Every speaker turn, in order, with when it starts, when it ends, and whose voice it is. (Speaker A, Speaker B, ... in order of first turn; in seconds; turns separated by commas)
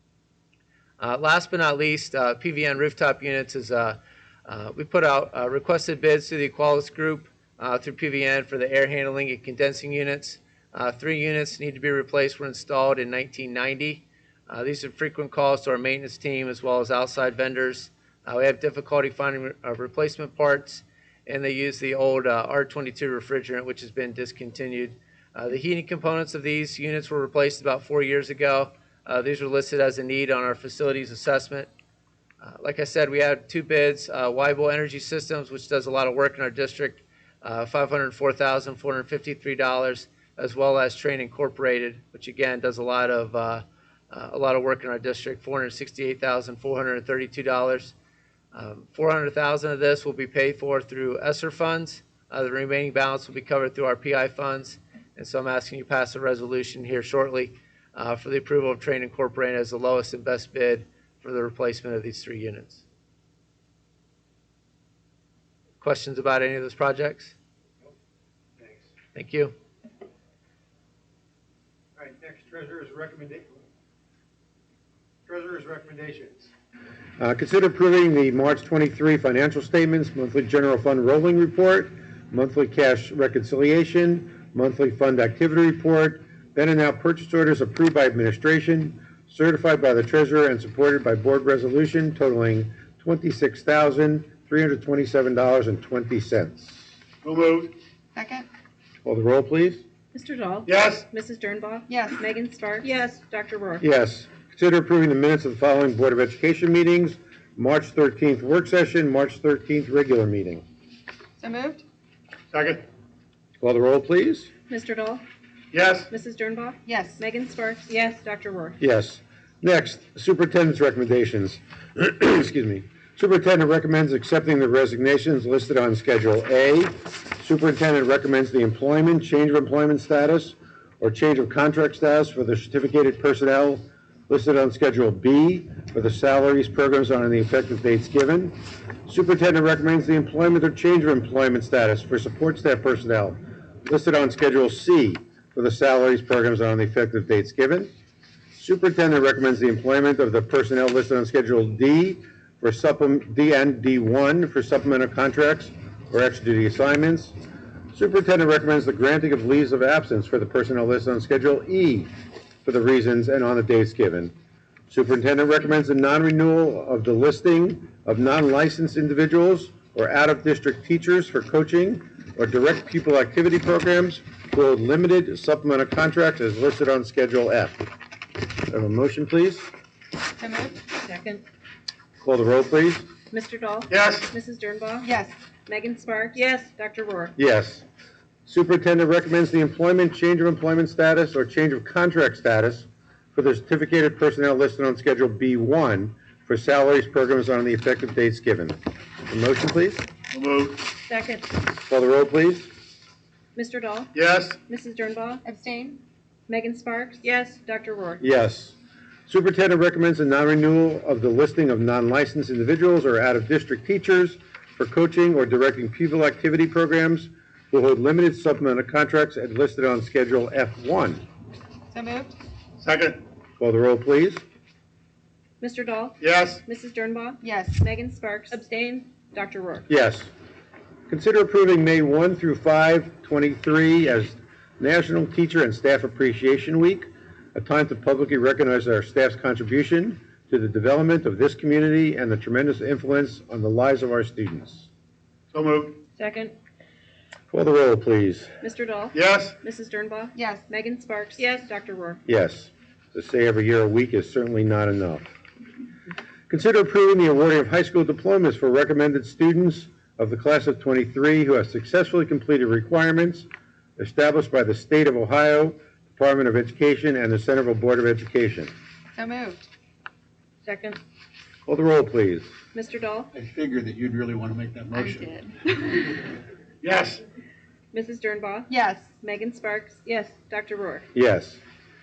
Speaker A: 1.0-31.7, Speaker A: 32.4-47.9, Speaker A: 48.5-62.8, Speaker A: 65.8-67.3, Speaker B: 68.6-68.9, Speaker A: 69.2-69.5, Speaker B: 72.0-73.6, Speaker B: 75.3-76.5, Speaker B: 77.2-96.9, Speaker C: 97.2-97.7, Speaker D: 98.2-98.5, Speaker B: 99.0-99.8, Speaker E: 100.1-103.8, Speaker C: 100.7-101.1, Speaker D: 101.9-102.2, Speaker F: 102.8-103.2, Speaker B: 103.8-110.6, Speaker D: 111.4-111.8, Speaker C: 112.5-112.8, Speaker B: 113.6-114.5, Speaker E: 114.7-115.2, Speaker C: 115.7-116.1, Speaker E: 116.1-118.8, Speaker D: 116.9-117.2, Speaker F: 117.9-118.2, Speaker B: 118.8-147.9, Speaker B: 148.6-157.3, Speaker B: 157.9-162.1, Speaker B: 162.6-164.3, Speaker B: 164.9-177.9, Speaker B: 178.7-179.7, Speaker D: 180.4-180.8, Speaker F: 181.0-181.4, Speaker B: 182.2-183.1, Speaker E: 183.3-185.1, Speaker C: 183.9-184.3, Speaker D: 185.0-185.3, Speaker E: 185.7-187.3, Speaker F: 186.3-186.8, Speaker B: 187.4-187.8, Speaker B: 188.5-200.1, Speaker C: 200.3-200.9, Speaker F: 201.0-201.5, Speaker B: 201.8-202.7, Speaker E: 203.6-204.1, Speaker C: 204.1-204.6, Speaker E: 204.7-205.4, Speaker D: 205.4-206.0, Speaker E: 206.5-208.2, Speaker F: 207.2-207.6, Speaker B: 208.2-208.8, Speaker B: 209.3-221.2, Speaker D: 221.9-222.4, Speaker C: 222.8-223.2, Speaker B: 223.6-224.4, Speaker E: 225.6-228.6, Speaker C: 226.2-226.6, Speaker D: 227.4-227.8, Speaker F: 228.5-229.2, Speaker E: 229.2-229.9, Speaker B: 229.9-230.3, Speaker B: 231.1-244.9, Speaker C: 245.5-246.0, Speaker F: 246.2-246.5, Speaker B: 247.5-248.5, Speaker E: 248.6-252.2, Speaker C: 249.1-249.6, Speaker D: 250.3-250.6, Speaker F: 251.4-251.7, Speaker B: 252.3-255.3, Speaker B: 256.5-268.7, Speaker D: 269.1-269.7, Speaker F: 270.7-271.0, Speaker B: 271.7-272.5, Speaker E: 272.7-273.3, Speaker G: 273.3-275.3, Speaker D: 274.9-276.1, Speaker C: 276.8-277.2, Speaker E: 277.9-278.7, Speaker D: 278.7-279.1, Speaker E: 279.2-281.1, Speaker F: 280.1-280.5, Speaker B: 281.1-281.6